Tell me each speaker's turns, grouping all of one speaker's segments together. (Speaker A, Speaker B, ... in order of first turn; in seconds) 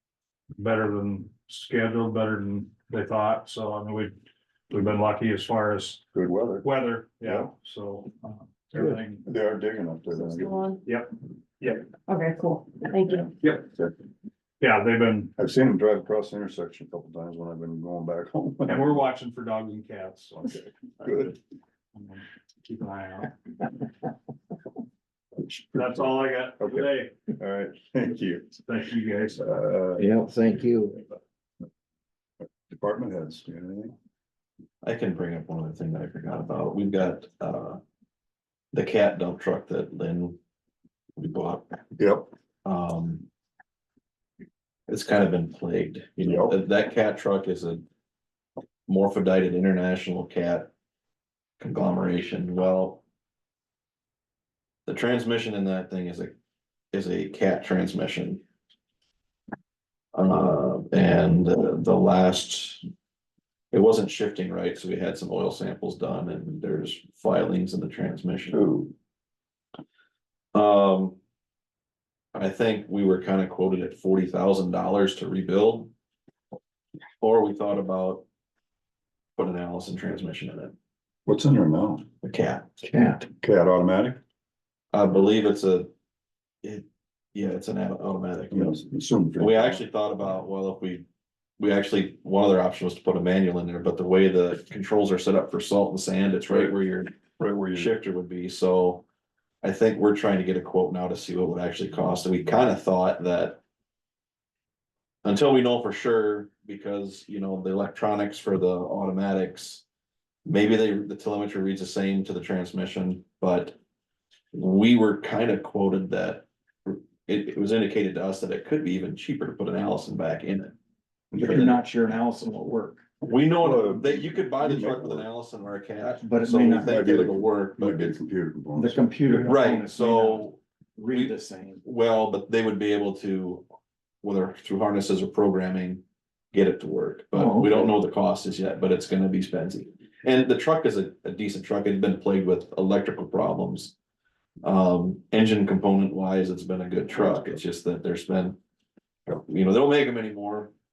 Speaker A: 0.6-4.2, 4.7-6.0, 6.6-9.2, 10.9-11.8, 13.4-13.7, 14.6-15.3, 18.7-20.5, 22.0-23.4, 25.7-27.1, 28.7-29.5
Speaker B: 6.1-6.7, 9.3-10.6, 15.4-19.0, 20.4-21.4, 26.6-28.6, 29.4-30.1, 32.7-34.0, 42.0-42.3, 46.2-46.6, 68.5-68.9, 81.3-82.1, 83.4-84.2, 88.5-89.8, 97.4-97.9, 121.3-121.8, 123.6-125.3, 126.8-129.1
Speaker C: 10.1-10.8, 12.1-13.4
Speaker D: 30.0-31.0, 82.8-83.3, 121.4-123.0, 126.2-127.1, 128.8-131.8, 137.3-137.9
Speaker E: 34.8-37.8, 38.7-40.4, 41.2-41.8, 42.6-43.3, 44.9-47.9, 48.9-50.7, 51.6-53.0, 54.9-56.4, 56.9-58.4, 60.1-62.9, 63.7-68.6, 70.5-71.2, 72.3-75.9, 77.2-78.3, 79.4-80.8, 82.2-82.7, 84.9-85.9, 86.6-88.8, 89.4-91.1, 91.6-97.2, 97.7-99.1, 99.6-103.6, 105.2-109.8, 110.5-113.8, 114.5-120.8, 123.2-128.2, 129.3-130.6, 131.1-133.7, 134.2-143.9, 144.6-148.6, 149.3-150.7